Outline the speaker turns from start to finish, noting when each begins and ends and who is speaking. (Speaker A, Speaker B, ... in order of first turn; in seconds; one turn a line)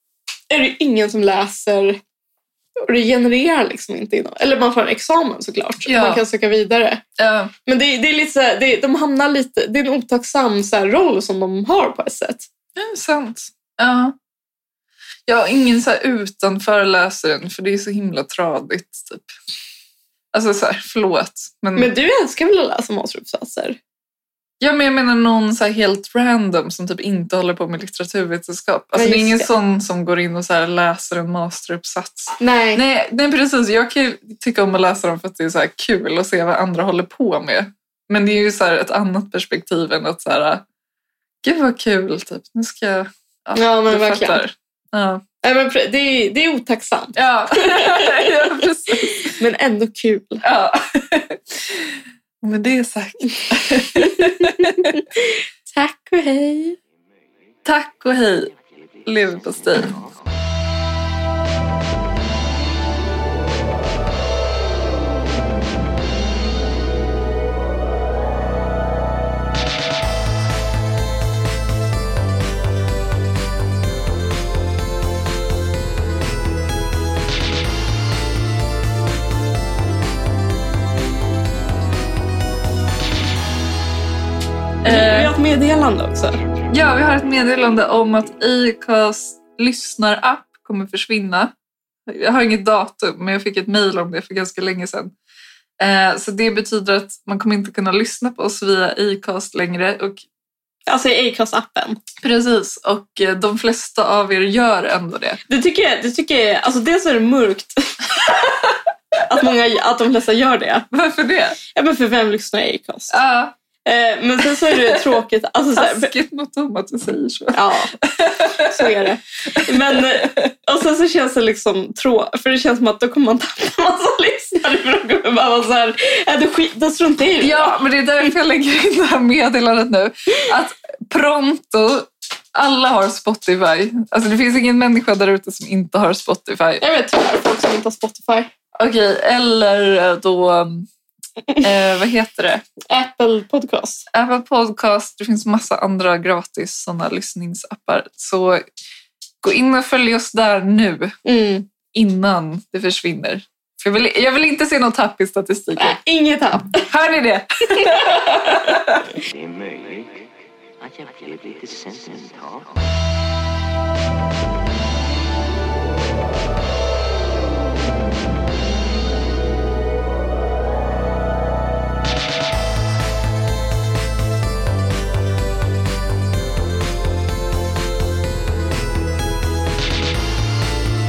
Speaker A: 0.5-2.0
Speaker A: 2.8-7.0
Speaker B: 5.8-6.2
Speaker B: 7.2-7.5
Speaker A: 7.7-12.5
Speaker B: 12.8-14.2
Speaker B: 15.3-19.3
Speaker B: 20.3-21.9
Speaker A: 21.8-23.8
Speaker B: 24.6-40.6
Speaker A: 28.9-29.5
Speaker A: 32.4-32.8
Speaker B: 41.4-45.2
Speaker A: 43.5-44.4
Speaker A: 45.4-48.5
Speaker B: 47.1-49.4
Speaker A: 49.3-50.4
Speaker B: 50.4-55.0
Speaker A: 53.9-56.8
Speaker C: 57.0-57.6
Speaker B: 57.6-58.5
Speaker C: 58.2-60.4
Speaker B: 59.0-59.9
Speaker B: 84.8-85.3
Speaker A: 84.8-86.4
Speaker C: 86.2-86.7
Speaker B: 86.7-91.5
Speaker B: 92.1-95.1
Speaker B: 95.8-100.2
Speaker A: 100.9-102.0
Speaker B: 102.2-105.4
Speaker A: 105.5-108.7
Speaker A: 109.3-110.9
Speaker B: 110.9-111.6
Speaker A: 111.7-113.2
Speaker B: 113.1-113.5
Speaker A: 113.8-116.1
Speaker B: 114.7-115.2
Speaker B: 115.7-120.5
Speaker A: 117.5-117.9
Speaker A: 118.5-127.8
Speaker B: 127.4-136.8
Speaker A: 136.8-138.5
Speaker B: 138.8-140.9
Speaker B: 141.6-142.6
Speaker A: 142.9-144.1
Speaker B: 144.1-148.6
Speaker B: 149.4-151.1
Speaker A: 151.2-151.7
Speaker B: 151.9-156.0
Speaker A: 155.8-156.9
Speaker B: 156.9-159.1
Speaker A: 157.8-158.6
Speaker C: 159.2-163.0